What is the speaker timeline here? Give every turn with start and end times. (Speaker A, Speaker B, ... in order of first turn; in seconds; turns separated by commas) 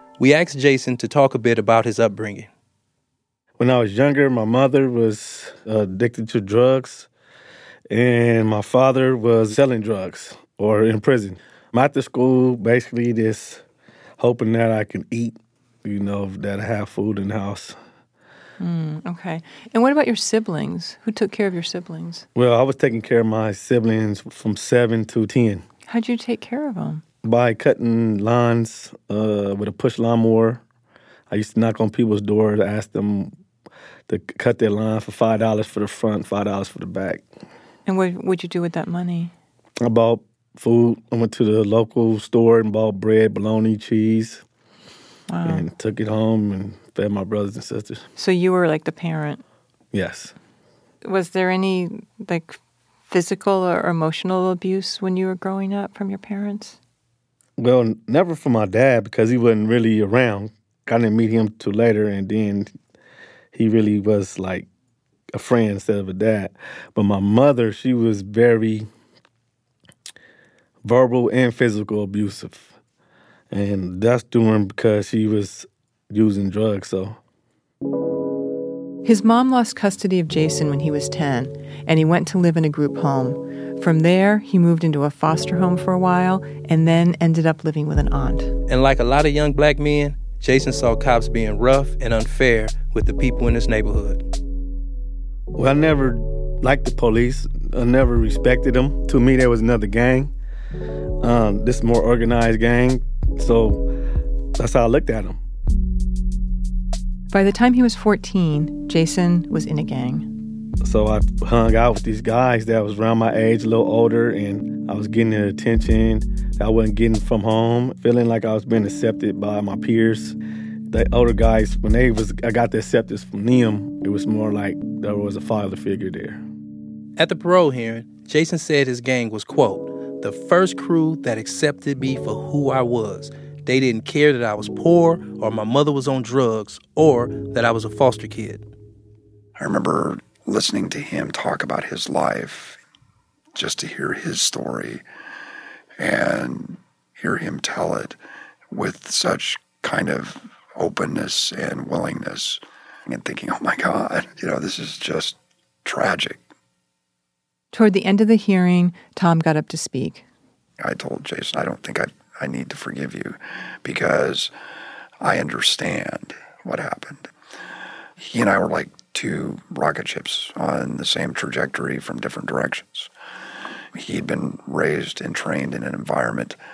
Speaker A: 0.2-2.5, Speaker B: 3.6-7.1, Speaker B: 7.9-13.6, Speaker B: 14.2-17.8, Speaker C: 18.6-22.3, Speaker B: 22.4-25.6, Speaker C: 25.9-27.0, Speaker B: 27.2-30.6, Speaker B: 31.3-33.3, Speaker B: 34.1-37.2, Speaker C: 37.9-39.3, Speaker B: 39.8-44.4, Speaker C: 45.3-45.7, Speaker B: 45.5-48.0, Speaker C: 48.2-49.4, Speaker B: 49.9-50.3, Speaker C: 51.0-52.6, Speaker C: 53.1-56.8, Speaker B: 57.6-62.7, Speaker B: 63.5-64.7, Speaker B: 65.3-68.9, Speaker B: 70.8-72.7, Speaker B: 73.5-77.2, Speaker C: 79.0-88.5, Speaker A: 88.7-94.2, Speaker B: 95.5-100.3, Speaker B: 101.2-103.9, Speaker B: 104.6-105.4, Speaker C: 107.3-110.3, Speaker B: 110.8-120.4, Speaker B: 120.9-126.4, Speaker A: 127.2-138.7, Speaker D: 139.6-142.8, Speaker D: 143.6-145.0, Speaker D: 146.0-148.2, Speaker D: 148.7-156.4, Speaker C: 157.7-160.2, Speaker D: 160.8-164.5, Speaker D: 165.2-167.3, Speaker D: 168.2-173.1, Speaker D: 173.9-176.6